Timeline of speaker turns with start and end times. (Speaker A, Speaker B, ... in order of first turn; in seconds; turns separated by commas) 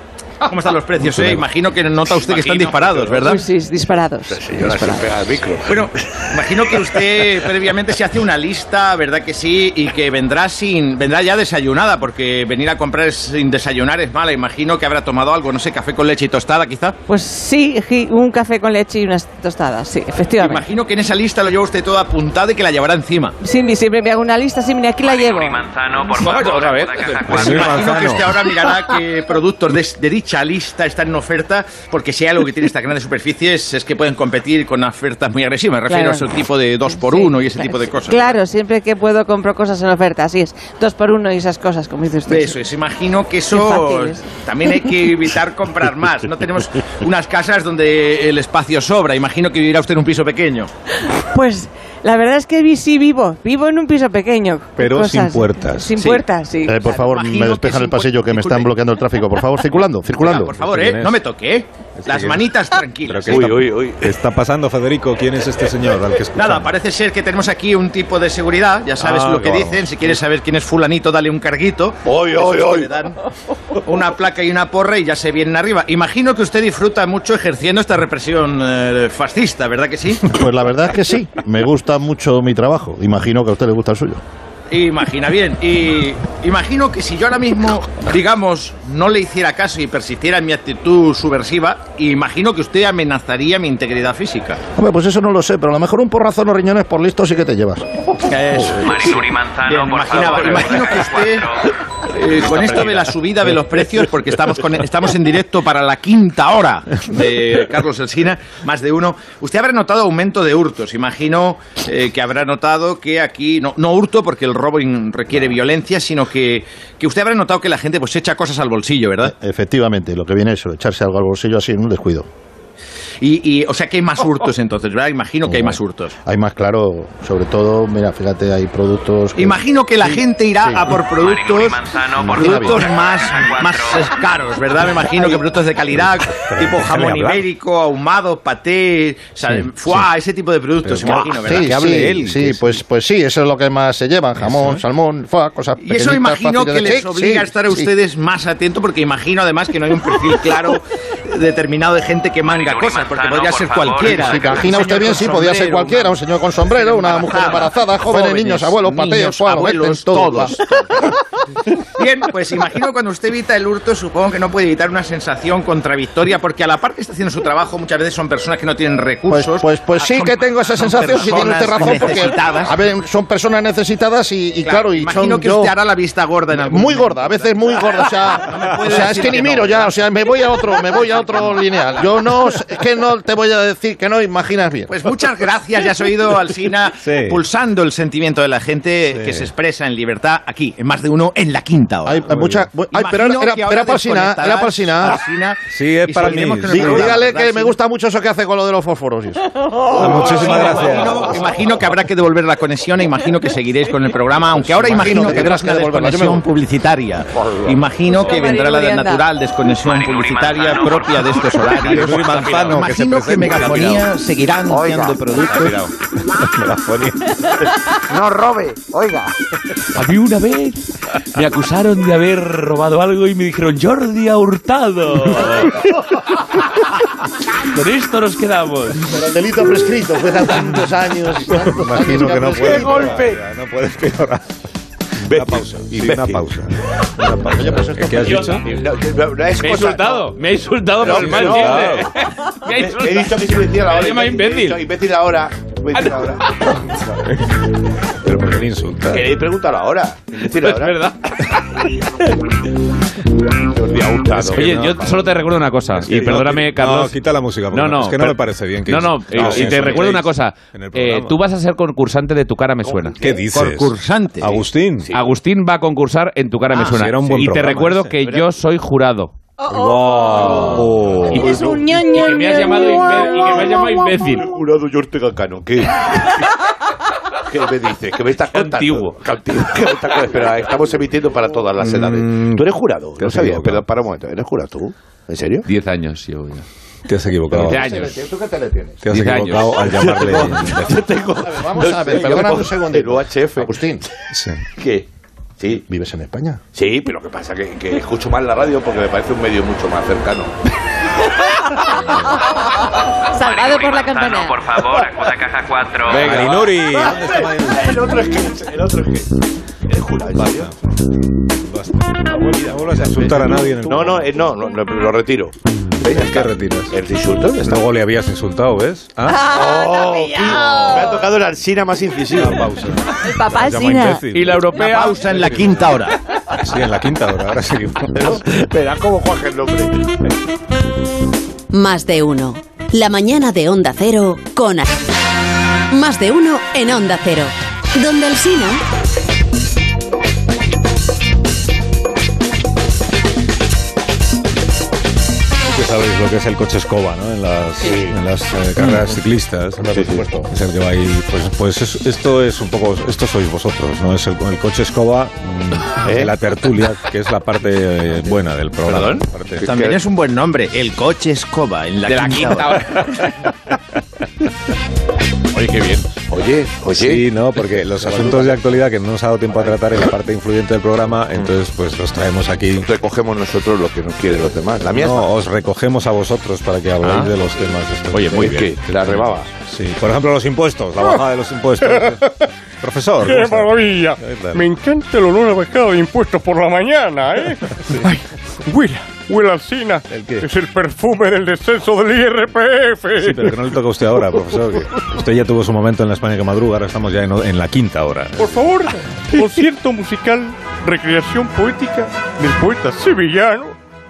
Speaker A: 0.4-3.5, Speaker B: 1.0-1.5, Speaker C: 3.1-5.1, Speaker D: 4.3-7.3, Speaker A: 5.7-17.0, Speaker C: 17.1-20.6, Speaker A: 20.4-23.4, Speaker C: 23.4-25.7, Speaker E: 25.0-27.9, Speaker A: 26.4-38.4, Speaker B: 27.3-28.3, Speaker C: 35.9-36.3, Speaker C: 36.9-42.6, Speaker A: 42.3-50.7, Speaker C: 43.5-44.8, Speaker C: 51.3-56.8, Speaker B: 54.8-56.1, Speaker F: 56.6-60.5, Speaker A: 56.8-58.7, Speaker A: 60.2-63.6, Speaker B: 60.4-61.2, Speaker B: 62.0-62.5, Speaker B: 63.0-66.7, Speaker D: 63.3-64.1, Speaker A: 66.3-73.2, Speaker B: 69.0-69.9, Speaker D: 72.0-72.9, Speaker A: 73.8-80.4, Speaker F: 80.3-84.2, Speaker A: 84.7-94.6, Speaker F: 94.8-97.8, Speaker A: 98.2-101.5, Speaker E: 98.7-101.7, Speaker A: 102.1-119.3, Speaker F: 119.2-122.3, Speaker A: 123.2-126.1, Speaker F: 125.5-131.0, Speaker A: 129.3-142.5, Speaker E: 131.1-134.1, Speaker F: 132.2-132.8, Speaker B: 136.5-137.4, Speaker B: 140.8-142.7, Speaker F: 141.1-147.9, Speaker B: 144.4-144.8, Speaker A: 145.8-161.2, Speaker E: 152.4-154.8, Speaker F: 153.9-160.6, Speaker A: 162.0-172.8, Speaker F: 169.3-175.7, Speaker A: 174.6-179.9, Speaker F: 176.5-184.9, Speaker A: 181.0-181.5, Speaker A: 184.9-192.3, Speaker B: 187.0-187.4, Speaker B: 189.1-189.5, Speaker F: 192.0-195.2, Speaker B: 192.3-192.7, Speaker A: 192.9-197.8, Speaker B: 195.7-197.2, Speaker F: 196.6-199.5, Speaker B: 199.9-201.4, Speaker A: 199.9-215.9, Speaker F: 204.8-206.4, Speaker C: 208.2-209.2, Speaker E: 209.8-211.8, Speaker B: 211.8-214.1, Speaker B: 216.2-217.4, Speaker G: 219.9-220.8, Speaker G: 221.3-225.9, Speaker G: 227.7-229.2, Speaker F: 229.1-233.2, Speaker B: 231.5-234.4, Speaker D: 232.5-233.4, Speaker D: 235.2-236.4, Speaker B: 235.2-238.6, Speaker F: 237.4-238.6, Speaker D: 238.6-240.4, Speaker H: 239.6-244.8, Speaker D: 241.0-242.1, Speaker B: 241.0-242.1, Speaker D: 242.7-247.1, Speaker B: 248.2-249.3, Speaker D: 249.1-251.1, Speaker H: 250.6-251.1, Speaker D: 253.6-255.2, Speaker B: 254.3-261.4, Speaker H: 254.5-257.1, Speaker H: 257.7-263.1, Speaker D: 259.3-260.1, Speaker D: 262.8-263.5, Speaker B: 263.2-265.1, Speaker A: 263.5-264.6, Speaker D: 265.0-265.3, Speaker H: 265.1-269.3, Speaker B: 266.7-268.2, Speaker D: 268.2-268.6, Speaker C: 269.6-274.2, Speaker B: 269.7-271.6, Speaker D: 271.4-271.8, Speaker H: 272.1-274.4, Speaker D: 274.2-276.4, Speaker D: 277.4-285.6, Speaker H: 278.6-278.9, Speaker B: 281.8-283.8, Speaker H: 285.7-286.4, Speaker B: 287.1-287.9, Speaker D: 287.5-288.4, Speaker H: 287.7-288.1, Speaker F: 287.8-289.0, Speaker B: 289.0-291.0, Speaker H: 289.1-289.6, Speaker D: 289.8-293.7, Speaker F: 291.4-294.0, Speaker B: 294.3-294.6, Speaker D: 294.8-295.1, Speaker D: 295.6-295.9, Speaker F: 295.9-296.6, Speaker D: 296.7-300.5, Speaker C: 302.1-302.5, Speaker C: 303.3-304.8, Speaker E: 303.4-306.4, Speaker B: 306.1-308.1, Speaker D: 306.1-309.3, Speaker D: 309.9-310.7, Speaker B: 310.3-310.7, Speaker B: 311.6-314.3, Speaker D: 312.3-317.8, Speaker B: 316.0-316.9, Speaker B: 317.6-319.5, Speaker C: 319.3-321.2, Speaker D: 319.4-322.7, Speaker B: 322.3-325.9, Speaker C: 323.2-324.4, Speaker A: 324.5-326.2, Speaker B: 326.5-328.4, Speaker D: 328.1-330.1, Speaker I: 331.7-334.9, Speaker I: 335.9-338.8, Speaker B: 345.7-359.6, Speaker D: 347.9-348.1, Speaker F: 349.9-350.5, Speaker D: 349.9-350.3, Speaker D: 356.0-356.3, Speaker D: 358.9-360.0, Speaker A: 359.6-362.9, Speaker H: 362.1-363.1, Speaker D: 365.5-367.2, Speaker B: 366.9-372.9, Speaker D: 367.9-368.7, Speaker D: 372.8-375.3, Speaker B: 374.9-384.7, Speaker D: 378.1-379.5, Speaker J: 381.9-382.2, Speaker J: 383.2-393.7, Speaker B: 390.1-390.5, Speaker B: 393.2-398.7, Speaker J: 398.4-403.8